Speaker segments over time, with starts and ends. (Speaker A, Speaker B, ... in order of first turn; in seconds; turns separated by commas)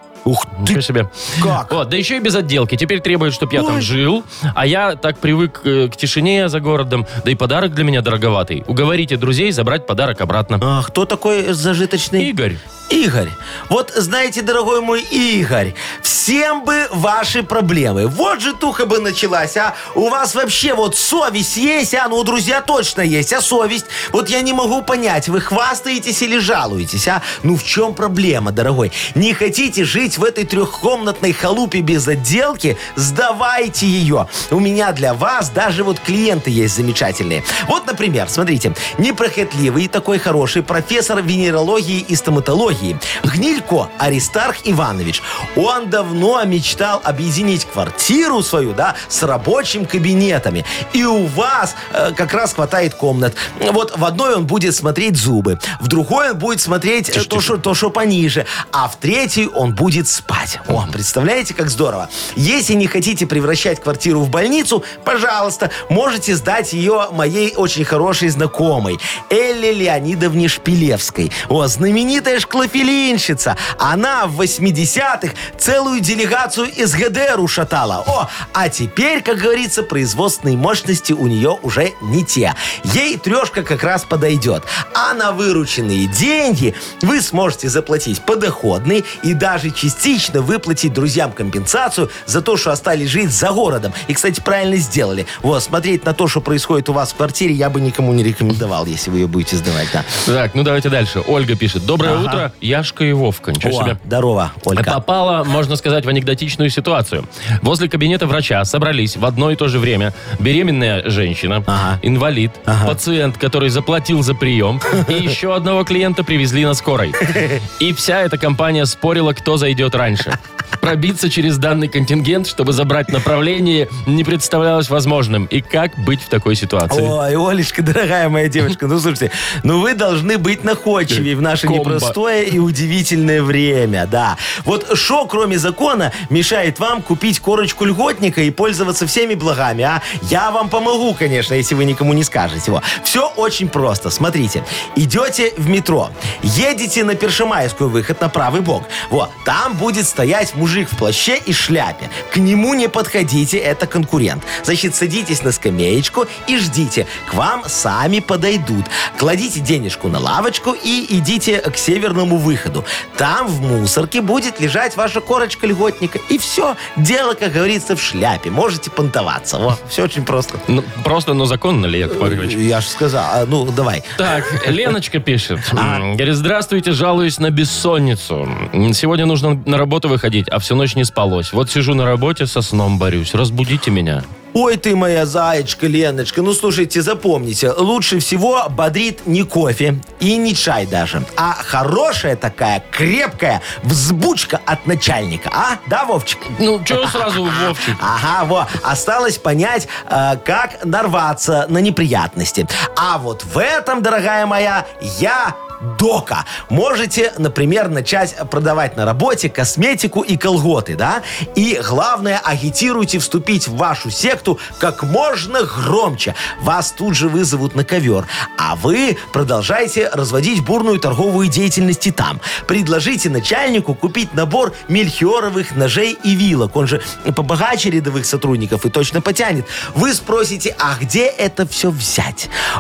Speaker A: 0.2-0.8, Speaker B: 0.6-10.6, Speaker A: 1.4-1.8, Speaker A: 3.5-3.9, Speaker A: 10.6-12.3, Speaker B: 12.2-12.6, Speaker A: 12.9-100.1, Speaker B: 57.1-57.5, Speaker B: 100.2-104.0, Speaker A: 102.0-102.5, Speaker A: 103.6-105.0, Speaker B: 104.7-127.2, Speaker A: 111.7-112.0, Speaker A: 112.7-113.0, Speaker A: 117.3-117.6, Speaker A: 126.9-170.6, Speaker B: 131.1-132.2, Speaker B: 170.7-172.6, Speaker A: 172.1-174.7, Speaker B: 174.2-184.2, Speaker A: 175.7-176.0, Speaker A: 184.5-232.5, Speaker B: 196.6-198.0